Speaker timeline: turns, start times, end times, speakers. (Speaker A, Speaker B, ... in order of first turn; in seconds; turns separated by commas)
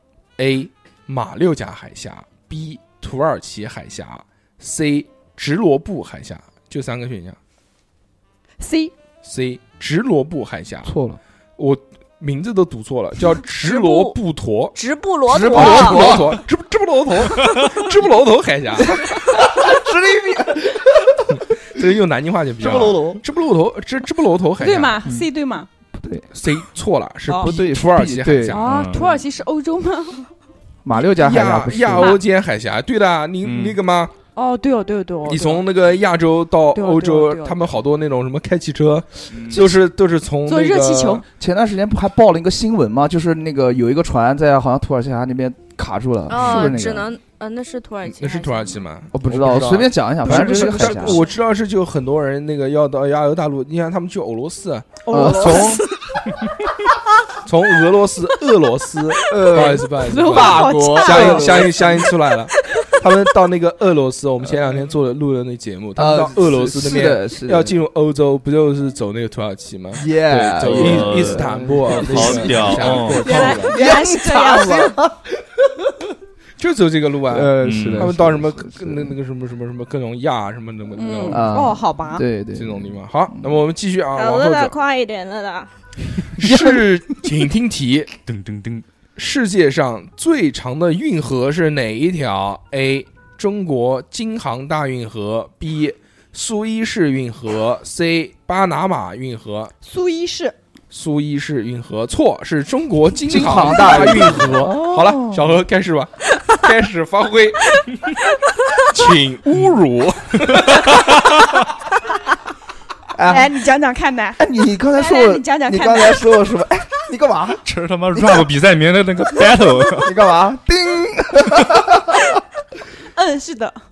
Speaker A: 0.4-7.4, Speaker B: 8.6-8.9, Speaker A: 9.2-10.9, Speaker C: 10.8-11.2, Speaker A: 11.6-14.8, Speaker D: 13.6-14.2, Speaker D: 14.7-16.1, Speaker C: 15.3-16.4, Speaker A: 15.5-19.0, Speaker E: 17.4-17.7, Speaker C: 18.8-21.7, Speaker A: 21.3-25.2, Speaker C: 22.6-23.2, Speaker B: 24.6-25.7, Speaker C: 25.9-26.3, Speaker A: 26.3-28.7, Speaker B: 27.3-27.5, Speaker C: 27.3-28.5, Speaker B: 28.5-30.3, Speaker E: 28.6-29.1, Speaker C: 30.8-32.1, Speaker A: 31.1-34.1, Speaker E: 33.4-33.8, Speaker B: 34.4-35.6, Speaker A: 35.2-41.2, Speaker B: 36.7-37.7, Speaker E: 39.3-39.6, Speaker B: 40.5-41.2, Speaker C: 41.4-47.1, Speaker D: 46.3-48.8, Speaker A: 46.4-46.7, Speaker A: 48.0-55.8, Speaker C: 49.1-51.2, Speaker E: 49.4-49.8, Speaker B: 50.3-50.9, Speaker D: 50.3-51.2, Speaker B: 55.1-55.8, Speaker C: 55.1-55.8, Speaker D: 55.4-55.9, Speaker A: 57.4-73.7, Speaker C: 59.3-62.1, Speaker B: 59.9-61.7, Speaker C: 66.0-67.7, Speaker C: 69.9-76.1, Speaker E: 70.5-73.6, Speaker B: 73.1-75.0, Speaker D: 73.3-73.8, Speaker A: 76.6-81.6, Speaker C: 77.3-79.1, Speaker E: 77.6-78.1, Speaker B: 81.0-82.2, Speaker C: 81.3-83.5, Speaker A: 82.5-84.8, Speaker D: 84.1-85.7, Speaker A: 86.4-88.1, Speaker C: 86.4-87.3, Speaker E: 88.2-88.8, Speaker A: 89.2-99.7, Speaker B: 99.8-100.5, Speaker A: 100.9-107.8, Speaker C: 103.2-105.5, Speaker A: 108.9-111.1, Speaker E: 109.5-109.7, Speaker E: 110.5-111.5, Speaker C: 113.1-113.5, Speaker B: 113.2-116.5, Speaker C: 114.4-117.6, Speaker E: 117.6-120.2, Speaker C: 120.0-122.4, Speaker B: 123.1-123.8